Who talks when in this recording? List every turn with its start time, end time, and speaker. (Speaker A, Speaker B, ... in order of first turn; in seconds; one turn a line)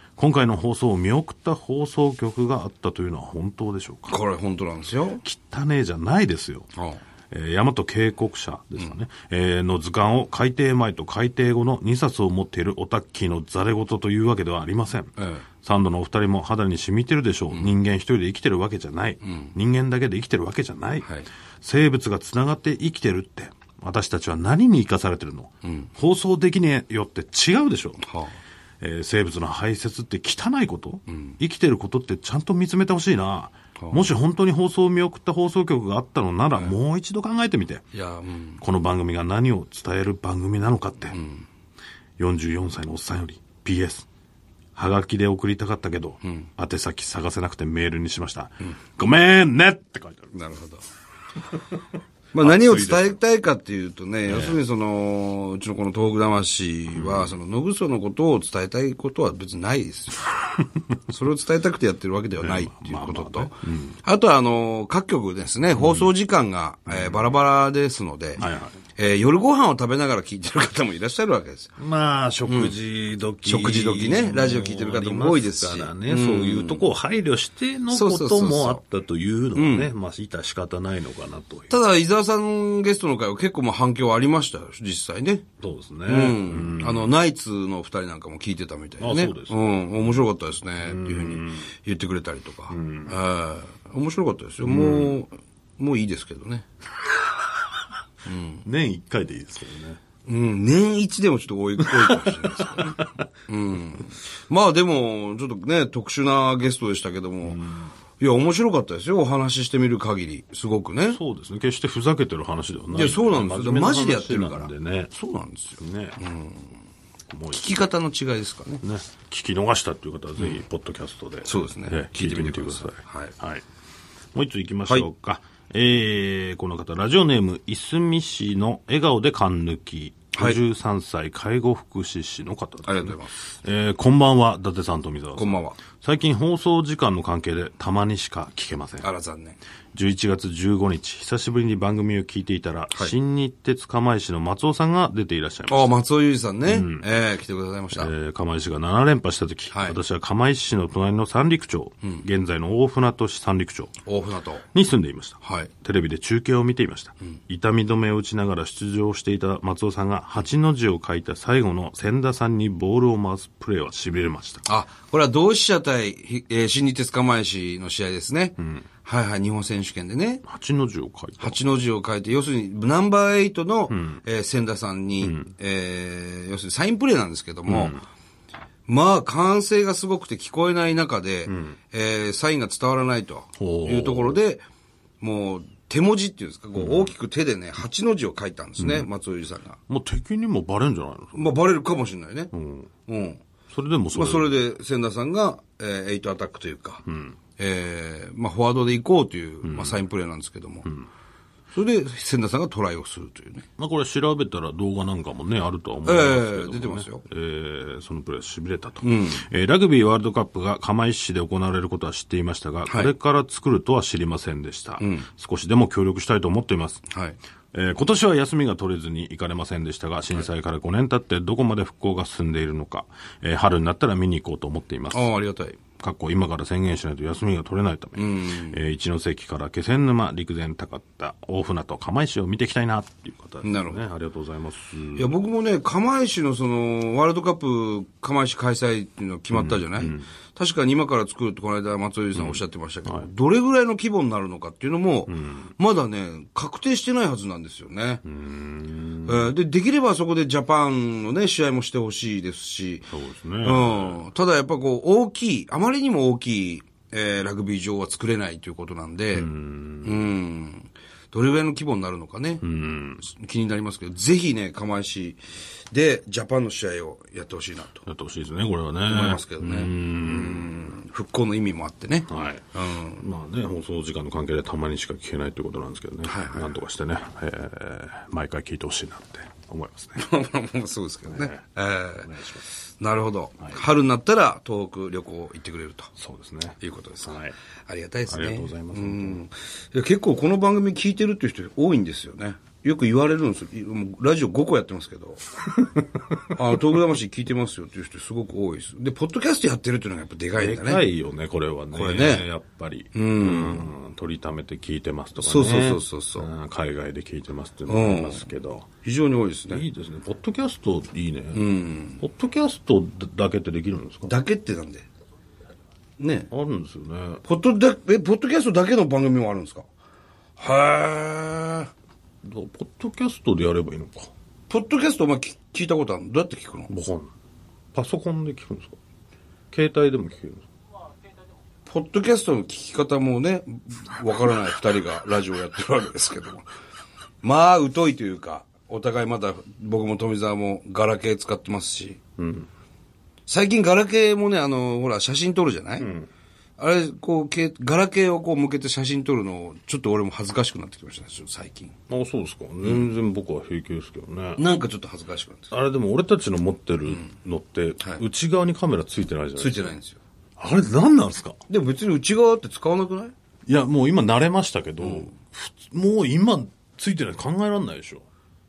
Speaker A: 0.2-4.2
Speaker B: 4.1-5.2
Speaker A: 5.2-6.7
Speaker B: 6.7-7.0
Speaker A: 7.3-21.1
Speaker B: 15.2-15.4
Speaker B: 19.2-19.5
Speaker A: 21.6-28.0
Speaker B: 25.6-25.9
Speaker B: 28.0-28.4
Speaker A: 28.8-37.8
Speaker B: 31.1-31.4
Speaker B: 33.8-34.0
Speaker B: 37.9-38.6
Speaker A: 38.6-41.2
Speaker B: 41.1-41.5
Speaker A: 42.2-44.1
Speaker A: 44.8-50.3
Speaker B: 50.3-50.8
Speaker B: 52.3-60.3
Speaker A: 52.4-53.1
Speaker A: 54.3-54.6
Speaker A: 56.9-57.3
Speaker B: 61.0-68.4
Speaker A: 62.4-64.0
Speaker A: 65.7-66.1
Speaker A: 66.9-67.3
Speaker A: 68.4-68.8
Speaker B: 69.0-71.7
Speaker A: 71.8-81.8
Speaker B: 72.5-72.7
Speaker B: 73.4-76.9
Speaker B: 77.9-78.8
Speaker B: 79.5-79.9
Speaker B: 81.7-85.5
Speaker A: 85.6-87.1
Speaker B: 86.0-96.7
Speaker A: 89.0-90.2
Speaker A: 90.8-91.7
Speaker A: 92.7-93.2
Speaker A: 94.6-95.2
Speaker B: 98.2-98.6
Speaker A: 98.6-100.0
Speaker B: 100.2-107.6
Speaker A: 101.8-103.2
Speaker A: 107.4-107.9
Speaker B: 108.2-111.2
Speaker A: 111.1-115.1
Speaker B: 112.9-116.7
Speaker A: 115.8-116.2
Speaker A: 117.3-117.8
Speaker B: 117.5-118.8
Speaker A: 118.8-123.6
Speaker B: 121.4-123.3
Speaker A: 124.3-139.1
Speaker B: 130.3-130.6
Speaker B: 132.8-133.3
Speaker B: 135.3-135.8
Speaker B: 139.0-139.6
Speaker A: 139.9-145.9
Speaker B: 145.7-148.1
Speaker A: 146.7-147.1
Speaker A: 147.9-153.9
Speaker B: 149.7-150.0
Speaker B: 154.0-154.7
Speaker A: 154.7-164.6
Speaker B: 155.4-155.7
Speaker B: 164.7-170.4
Speaker A: 168.6-168.8
Speaker A: 170.4-171.6
Speaker B: 171.4-178.0
Speaker A: 173.9-174.2
Speaker A: 175.2-175.5
Speaker A: 177.7-178.0
Speaker B: 178.9-184.6
Speaker A: 181.5-181.8
Speaker A: 183.6-184.4
Speaker B: 185.2-189.8
Speaker A: 186.8-187.1
Speaker A: 188.8-189.1
Speaker A: 189.9-191.6
Speaker B: 191.3-192.5
Speaker A: 192.5-192.9
Speaker B: 193.1-193.4
Speaker A: 193.7-194.6
Speaker B: 194.1-197.0
Speaker A: 197.0-197.3
Speaker B: 197.6-200.9
Speaker A: 199.6-200.0
Speaker B: 201.7-203.7
Speaker A: 203.8-217.1
Speaker B: 206.0-207.2
Speaker B: 209.0-209.4
Speaker B: 212.9-213.1
Speaker B: 215.0-215.3
Speaker B: 217.1-217.4
Speaker A: 217.7-225.3
Speaker B: 225.1-225.8
Speaker A: 226.0-235.3
Speaker B: 228.2-228.8
Speaker B: 233.6-234.0
Speaker B: 235.2-248.2
Speaker A: 239.5-240.3
Speaker A: 242.3-243.3
Speaker A: 245.3-245.7
Speaker A: 248.2-249.5
Speaker B: 249.2-253.1
Speaker A: 253.1-254.2
Speaker B: 253.6-259.5
Speaker A: 259.3-260.2
Speaker B: 260.0-262.6
Speaker A: 262.6-263.2
Speaker B: 263.2-268.0
Speaker A: 268.0-270.8
Speaker B: 269.1-273.2
Speaker A: 272.3-280.2
Speaker B: 276.2-276.7
Speaker B: 280.1-282.3
Speaker A: 281.3-281.6
Speaker A: 282.1-282.6
Speaker B: 283.0-286.1
Speaker A: 286.2-287.5
Speaker B: 286.8-295.4
Speaker A: 288.3-289.4
Speaker A: 295.8-296.5
Speaker B: 296.5-301.0
Speaker A: 300.6-308.9
Speaker B: 301.9-302.4
Speaker B: 303.1-303.9
Speaker B: 305.4-306.5
Speaker B: 307.9-308.4
Speaker B: 309.0-309.8
Speaker A: 309.7-311.6
Speaker B: 311.5-312.2
Speaker A: 312.2-314.3
Speaker B: 314.2-315.1
Speaker B: 316.2-316.5
Speaker A: 316.5-317.4
Speaker B: 317.4-319.8
Speaker B: 320.6-321.9
Speaker A: 322.4-324.3
Speaker B: 324.7-326.9
Speaker A: 326.9-327.3
Speaker A: 327.9-328.9
Speaker A: 329.7-330.6
Speaker B: 331.9-336.6
Speaker B: 337.4-342.2
Speaker A: 342.4-342.7
Speaker B: 343.5-346.1
Speaker A: 346.0-346.3
Speaker B: 346.8-351.9
Speaker A: 352.1-354.6
Speaker B: 354.6-355.7
Speaker A: 355.7-359.9
Speaker B: 359.6-360.2
Speaker A: 360.6-361.6
Speaker B: 361.7-363.3
Speaker A: 363.7-368.2
Speaker B: 365.0-365.3